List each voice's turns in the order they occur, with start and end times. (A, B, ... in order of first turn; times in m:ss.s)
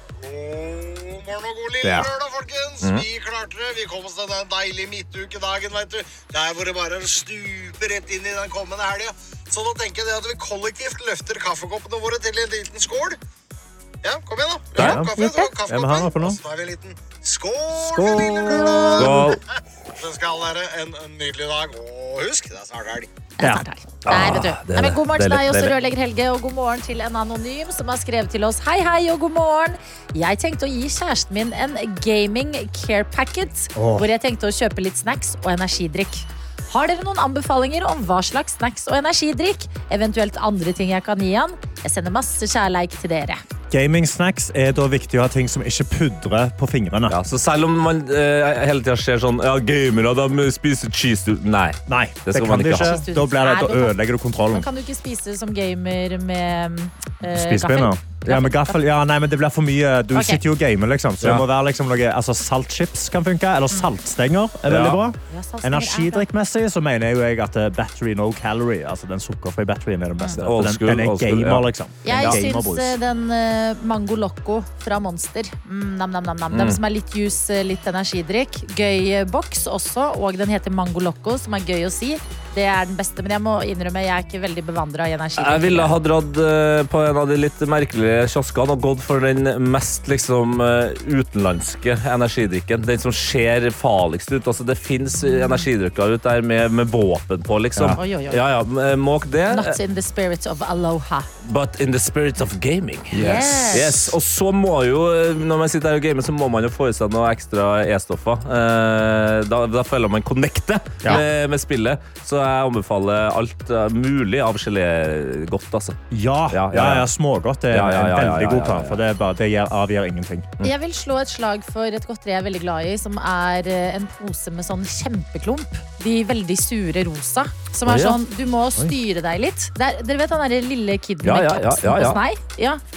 0:00.2-0:13.2 A
0:01.8-0:02.1 B
0:14.0-0:19.4 A
0:14.8-0:15.1 B
0:14.8-0:15.5 C
0:15.7-0:16.4 B
0:17.7-0:19.3 B
0:19.0-0:19.4 D
0:20.0-0:23.1 A
0:23.4-0:43.4 C
0:24.0-0:25.7 D
0:33.8-0:34.0 B
0:43.7-0:47.2 B
0:47.1-0:53.0 D
0:51.9-0:54.7 B
0:52.8-0:53.9 C
0:54.5-0:58.8 C
0:57.2-1:13.0 B
1:00.1-1:00.4 C
1:04.7-1:05.0 D
1:05.3-1:06.3 C
1:10.4-1:12.4 D
1:12.0-1:26.0 C
1:16.5-1:16.8 D
1:25.4-1:39.8 D
1:35.3-1:35.6 C
1:37.9-1:38.4 C
1:39.5-1:41.3 C
1:41.4-1:56.0 D
1:43.1-1:44.1 C
1:56.1-2:00.5 B
1:56.5-1:57.1 D
1:57.7-1:59.0 D
2:00.6-2:12.8 C
2:07.8-2:08.2 D
2:11.2-2:12.2 D